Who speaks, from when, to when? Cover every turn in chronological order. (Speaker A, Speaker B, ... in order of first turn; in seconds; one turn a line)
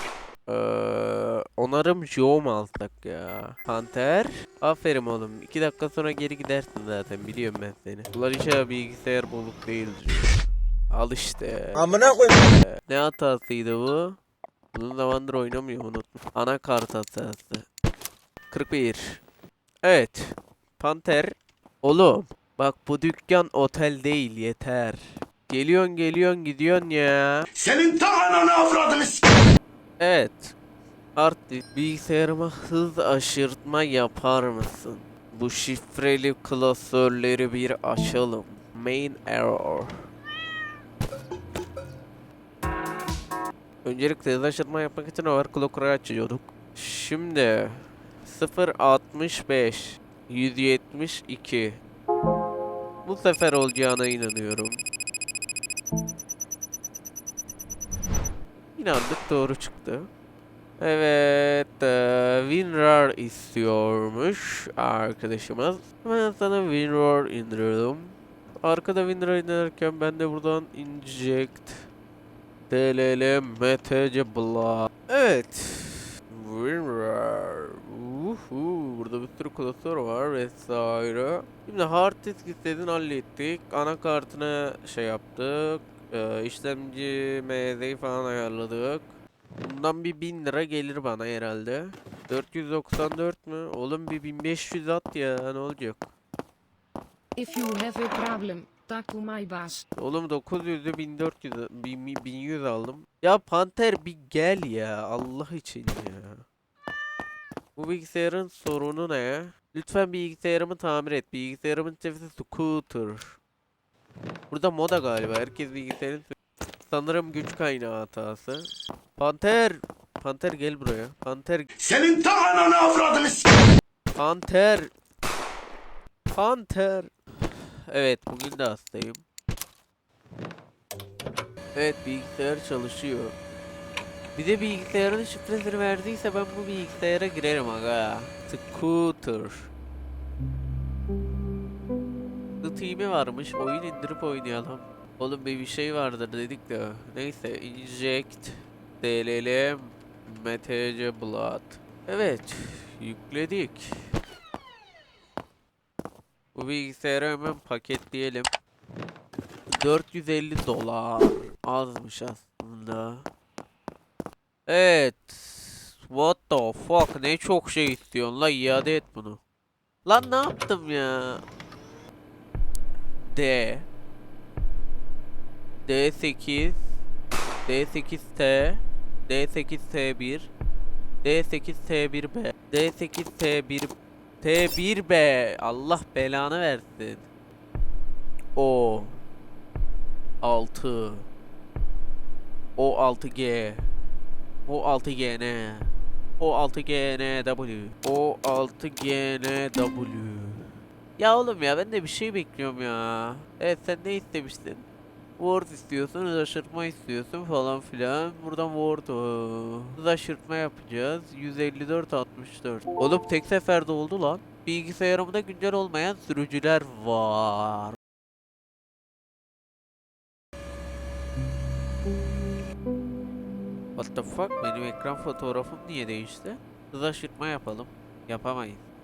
Speaker A: 0.5-10.4
Speaker A: 10.9-14.2
Speaker B: 11.8-12.4
Speaker A: 14.7-17.6
Speaker A: 18.5-19.2
Speaker A: 19.8-27.5
Speaker B: 27.5-29.3
Speaker A: 30.0-30.6
Speaker A: 31.2-40.0
Speaker A: 43.8-51.8
Speaker A: 53.0-54.8
Speaker A: 58.8-60.1
Speaker A: 60.8-71.9
Speaker A: 72.7-96.1
Speaker C: 97.4-99.8
Speaker A: 100.0-106.4
Speaker A: 107.8-113.4
Speaker A: 114.5-116.3
Speaker A: 116.9-121.7
Speaker B: 121.8-123.5
Speaker A: 124.2-124.9
Speaker A: 126.3-129.2
Speaker A: 131.8-133.3
Speaker A: 134.4-139.7
Speaker A: 142.6-153.9
Speaker A: 156.6-158.5
Speaker A: 159.7-163.2
Speaker A: 164.7-169.4
Speaker A: 170.1-171.4
Speaker A: 173.3-173.9
Speaker A: 175.9-176.9
Speaker A: 177.7-180.5
Speaker A: 181.2-187.2
Speaker A: 188.6-189.2
Speaker A: 190.4-191.3
Speaker A: 192.8-193.9
Speaker A: 194.7-204.8
Speaker A: 205.4-218.0
Speaker A: 224.0-228.8